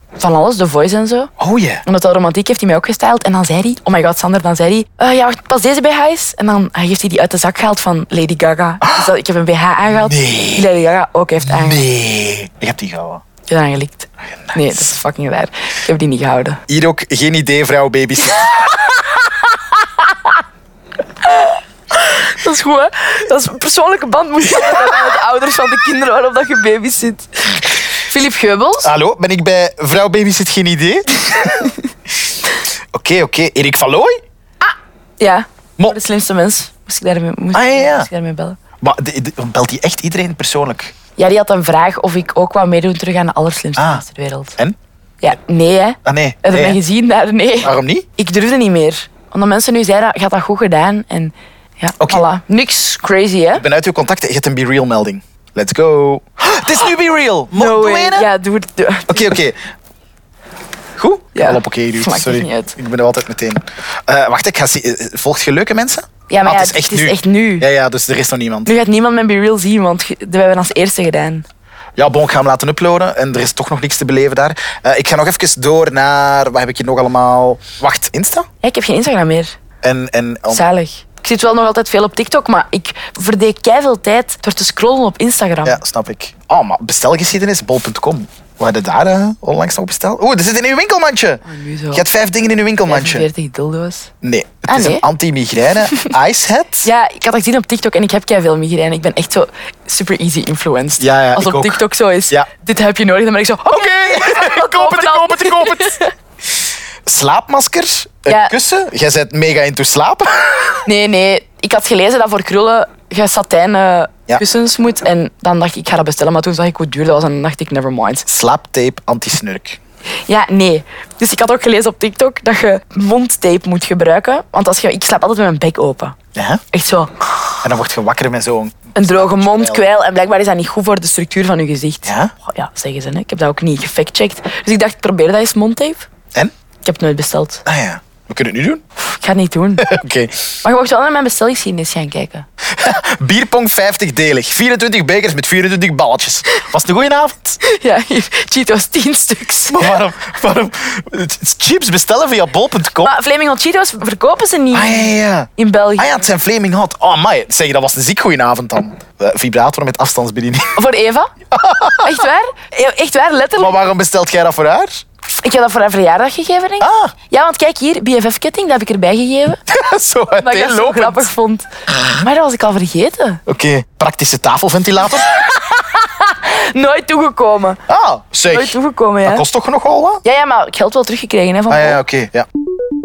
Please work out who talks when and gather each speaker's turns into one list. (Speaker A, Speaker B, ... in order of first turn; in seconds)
Speaker A: 0.2-1.3, 1.9-11.8, 13.5-16.6, 18.4-19.0, 21.2-28.9, 34.6-38.6, 41.2-44.6, 45.2-53.6, 57.5-59.3, 61.4-62.7, 66.3-67.7, 68.7-71.5, 78.6-79.6, 80.5-85.8, 91.5-92.0, 92.9-94.1, 94.7-95.0, 96.8-106.1, 108.3-108.5, 110.9-118.3, 120.3-126.2, 126.7-127.2, 128.9-136.1, 136.8-137.6, 139.0-139.9, 140.6-142.5, 147.6-149.9, 153.0-156.3, 160.8-161.3, 162.0-163.8, 165.4-169.6, 170.4-173.4, 175.3-177.8, 178.5-179.4, 180.2-182.0
Speaker B: 1.4-1.8, 8.8-9.1, 10.0-10.7, 11.4-13.2, 14.5-14.8, 16.7-18.6, 28.8-31.7, 32.9-34.2, 37.5-38.1, 38.8-40.9, 43.8-44.0, 46.0-46.8, 47.6-48.1, 53.5-58.3, 59.1-59.6, 61.0-68.7, 72.0-78.5, 79.8-80.6, 85.6-93.3, 94.2-96.9, 101.0-102.5, 103.7-106.0, 107.0-110.8, 118.3-119.8, 126.3-126.6, 127.6-129.8, 132.1-132.3, 137.7-138.8, 139.8-140.5, 142.7-147.6, 149.7-153.1, 154.7-160.8, 161.5-162.3, 163.6-165.0, 166.8-167.1, 169.7-171.3, 171.9-172.2, 173.5-175.3, 177.9-180.2, 181.7-182.5